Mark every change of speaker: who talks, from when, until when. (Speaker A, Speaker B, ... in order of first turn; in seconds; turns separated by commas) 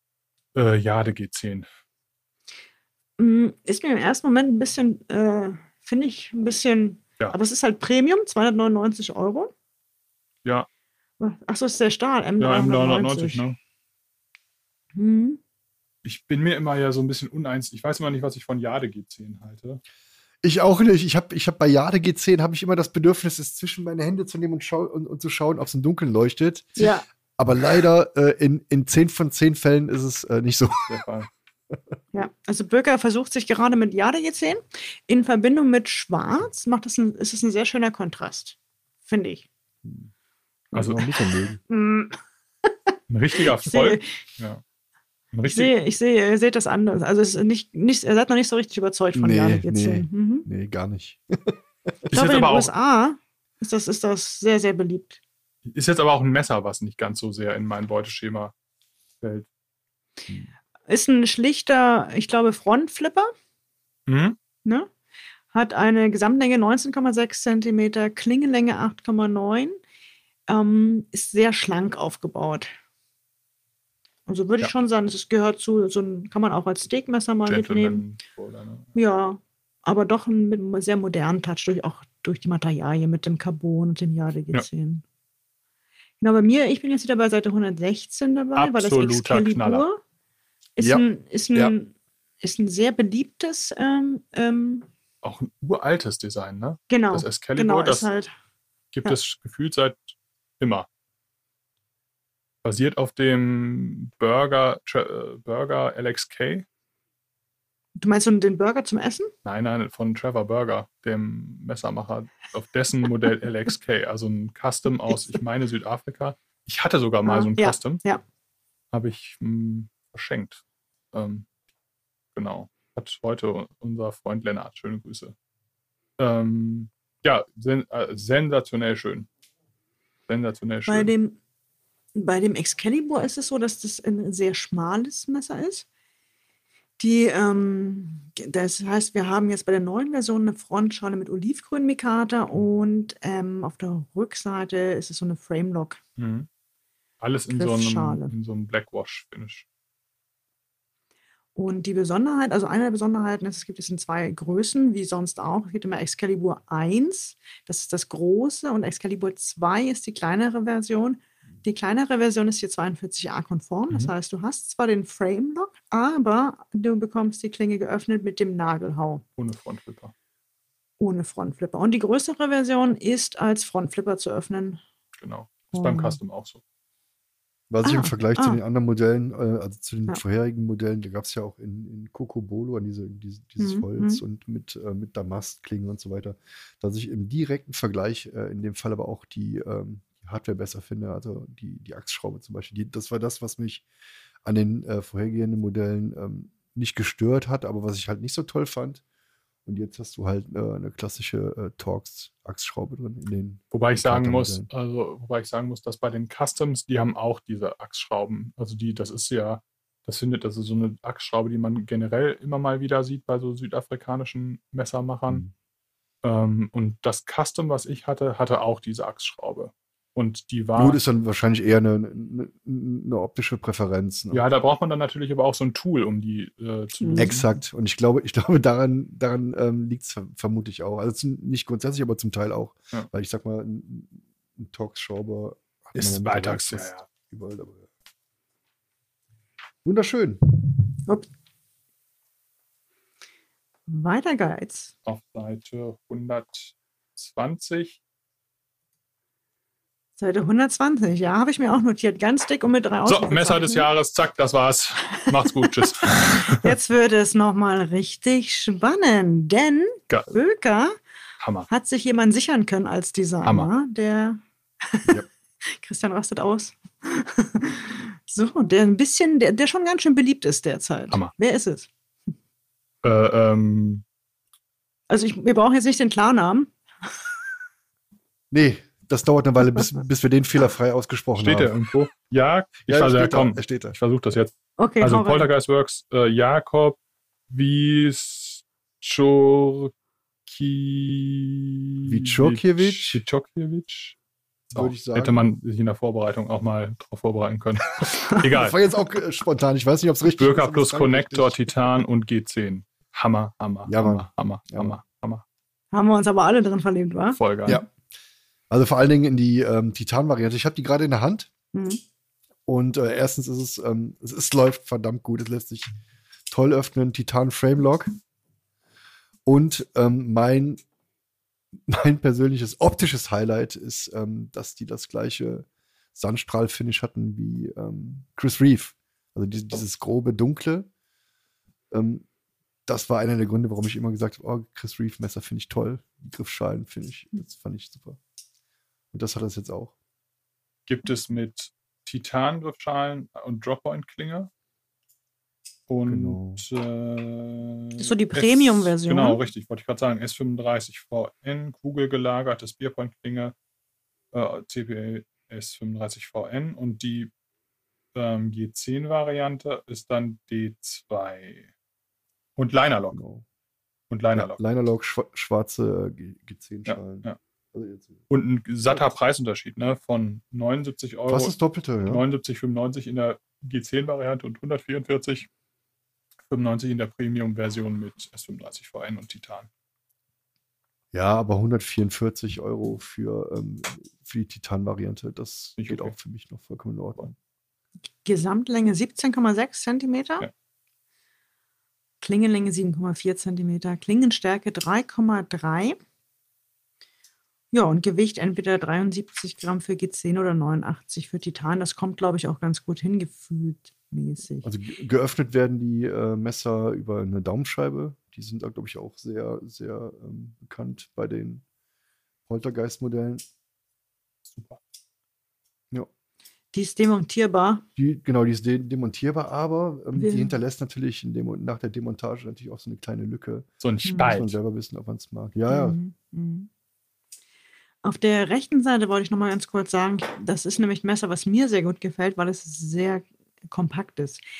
Speaker A: 0.5-1.7, Speaker B: 3.2-9.5, Speaker B: 11.2-13.4, Speaker A: 12.4-13.6, Speaker B: 14.9-15.4, Speaker A: 16.0-19.8, Speaker C: 20.4-31.0, Speaker B: 26.8-27.0, Speaker A: 30.9-31.3, Speaker B: 32.1-39.5, Speaker C: 39.8-40.1, Speaker C: 40.7-41.6, Speaker A: 40.7-41.1, Speaker B: 41.7-42.2, Speaker A: 43.1-44.6, Speaker B: 43.5-44.2, Speaker A: 45.3-45.7, Speaker B: 45.5-50.5, Speaker C: 49.1-51.9, Speaker A: 52.1-52.7, Speaker B: 52.1-55.2, Speaker A: 55.6-58.5, Speaker A: 59.2-59.5, Speaker B: 60.9-63.3, Speaker A: 64.1-64.4, Speaker B: 65.5-69.8, Speaker B: 70.5-72.7, Speaker B: 74.3-78.0, Speaker A: 77.5-78.9, Speaker B: 78.9-85.0, Speaker B: 86.2-90.0, Speaker A: 88.5-89.8, Speaker B: 90.8-94.9, Speaker C: 90.8-91.7, Speaker A: 95.2-98.1, Speaker B: 96.9-98.3, Speaker A: 98.9-100.9, Speaker A: 102.6-106.7, Speaker B: 108.0-109.3, Speaker A: 109.4-118.0, Speaker B: 117.2-118.2, Speaker A: 118.9-120.6, Speaker A: 121.1-121.5, Speaker A: 122.3-125.3, Speaker A: 126.2-129.3, Speaker A: 130.3-131.1, Speaker B: 130.9-131.4, Speaker B: 132.1-135.8, Speaker B: 137.0-146.0, Speaker A: 146.2-146.5, Speaker A: 147.2-149.6, Speaker B: 147.5-148.3, Speaker B: 151.6-169.2, Speaker A: 169.4-170.1, Speaker B: 171.0-174.8, Speaker A: 175.2-176.6, Speaker B: 175.7-176.2, Speaker C: 177.7-193.8, Speaker B: 177.8-178.6, Speaker B: 183.6-184.2, Speaker C: 194.4-199.0, Speaker C: 199.7-204.7, Speaker A: 203.7-215.4, Speaker A: 216.2-221.0, Speaker C: 220.7-224.4, Speaker A: 224.3-227.5, Speaker B: 227.0-227.3, Speaker C: 227.2-237.9, Speaker A: 235.9-237.1, Speaker C: 239.8-240.4, Speaker B: 243.9-244.9, Speaker A: 245.0-248.0, Speaker B: 250.2-253.9, Speaker A: 253.1-256.7, Speaker B: 255.2-261.0, Speaker A: 260.1-260.3, Speaker A: 261.4-261.7, Speaker B: 261.7-271.9, Speaker A: 273.0-274.0, Speaker B: 275.1-276.7, Speaker C: 278.5-281.7, Speaker A: 281.4-287.0, Speaker C: 282.9-284.0, Speaker B: 284.8-285.5, Speaker A: 287.5-289.9, Speaker A: 290.5-294.2, Speaker C: 292.0-293.2, Speaker A: 294.7-298.8, Speaker C: 294.7-295.4, Speaker C: 298.5-301.9, Speaker A: 300.3-305.4, Speaker C: 303.9-304.9, Speaker B: 305.9-307.4, Speaker A: 307.4-307.8, Speaker C: 308.7-311.5, Speaker B: 311.7-312.0, Speaker C: 312.6-315.9, Speaker C: 316.5-318.1, Speaker C: 319.4-320.8, Speaker C: 321.9-330.9, Speaker C: 331.9-332.2, Speaker C: 332.9-338.2, Speaker C: 339.1-339.9, Speaker A: 340.9-344.5, Speaker A: 345.9-353.5, Speaker C: 346.1-346.6, Speaker B: 348.0-349.4, Speaker A: 354.3-357.3, Speaker A: 358.1-361.7, Speaker A: 362.6-363.2, Speaker C: 363.1-363.4, Speaker A: 364.1-364.6, Speaker C: 364.3-368.2, Speaker A: 366.9-367.4, Speaker A: 368.3-375.5, Speaker C: 371.3-372.2, Speaker A: 376.5-379.7, Speaker C: 381.1-387.3, Speaker A: 385.8-386.1, Speaker B: 388.2-390.5, Speaker B: 392.2-396.0, Speaker B: 397.7-404.7, Speaker C: 404.6-411.6, Speaker C: 412.4-413.4, Speaker A: 414.4-414.8, Speaker B: 416.7-417.8, Speaker C: 418.0-423.7, Speaker B: 420.1-420.5, Speaker A: 423.8-424.6, Speaker B: 424.1-424.4, Speaker C: 424.2-426.0, Speaker B: 425.7-426.7, Speaker B: 428.0-434.4